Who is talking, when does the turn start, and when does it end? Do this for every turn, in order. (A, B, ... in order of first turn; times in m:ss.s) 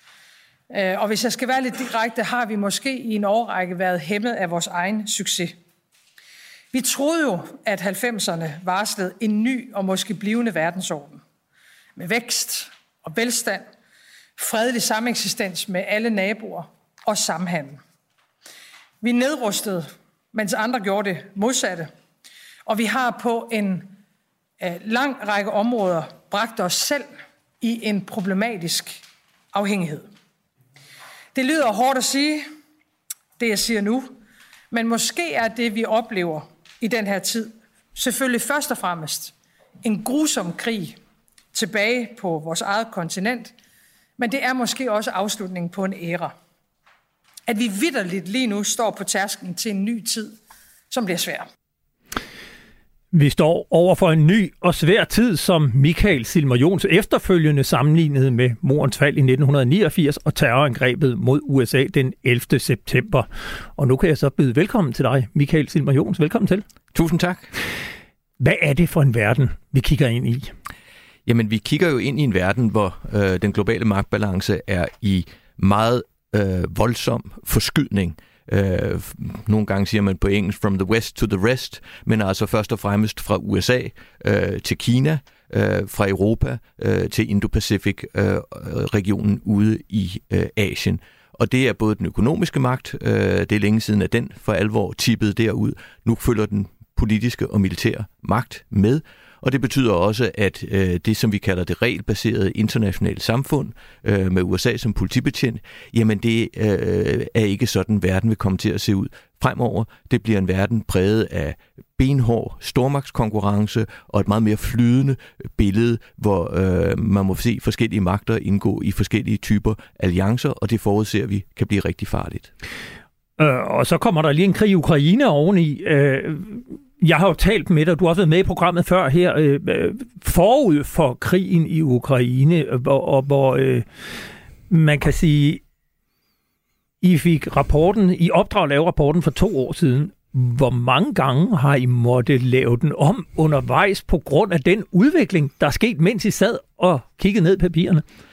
0:00.7-0:05.6 A
0:06.7-0:11.2 A
0:12.0-0:13.6 A
0:14.4-0:17.8 A
0:19.0-0:21.9 A
0:22.6-0:23.9 A
0:24.6-0:29.0 A
0:29.5-0:30.0 A
0:31.3-0:32.4 A
0:33.4-0:34.1 A
0:34.7-0:41.0 A
0:41.5-0:43.5 A
0:44.2-0:46.3 A
0:47.5-0:50.3 A
0:50.9-0:51.4 A
0:53.1-1:06.6 B
1:06.9-1:07.5 C
1:08.4-1:10.5 B
1:11.2-2:02.5 C
2:03.4-2:13.8 B
2:14.7-2:15.6 B
2:17.0-2:28.0 B